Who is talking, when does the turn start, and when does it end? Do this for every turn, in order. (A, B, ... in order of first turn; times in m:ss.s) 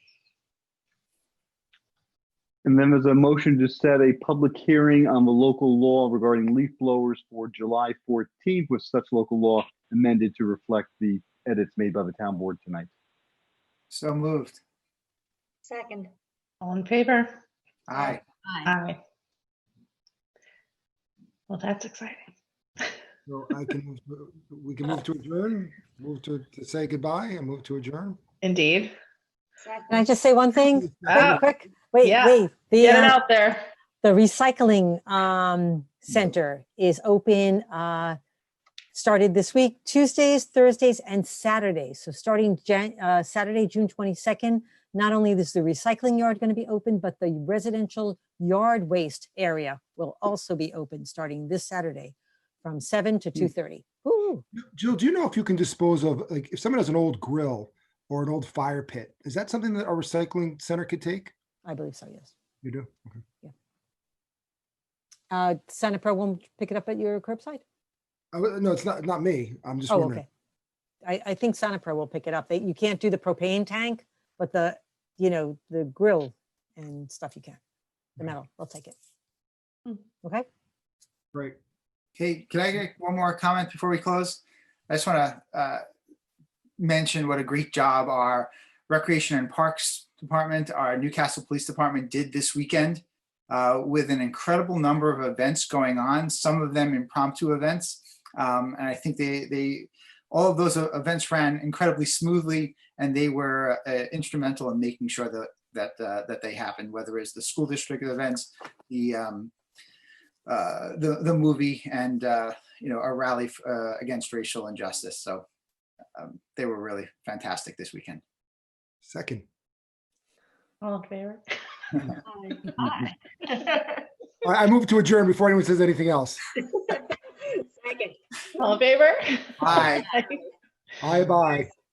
0:02.6-0:12.9 A
0:13.9-0:14.6 B
0:15.6-0:16.1 C
0:16.6-0:17.4 D
0:17.9-0:18.2 B
0:18.7-0:19.0 D
0:21.5-0:23.0 D
0:23.3-0:28.2 E
0:28.4-0:29.0 D
0:29.6-0:30.1 C
0:29.9-0:33.2 F
0:30.8-0:31.4 E
0:31.0-0:31.4 D
0:32.0-0:33.7 D
0:34.0-0:38.2 F
0:38.9-0:54.4 F
0:54.6-1:01.3 E
1:01.6-1:02.3 F
1:02.6-1:03.2 E
1:05.3-1:07.6 F
1:08.3-1:10.2 E
1:09.9-1:10.3 F
1:11.0-1:17.6 F
1:18.2-1:19.0 F
1:22.2-1:25.8 B
1:26.8-1:49.5 B
1:50.5-1:55.4 B
1:56.2-1:58.2 B
1:59.0-1:59.4 E
2:00.8-2:01.6 D
2:02.3-2:02.7 C
2:04.4-2:06.4 E
2:06.6-2:08.2 C
2:08.6-2:10.4 D
2:09.6-2:10.1 B
2:11.0-2:11.7 E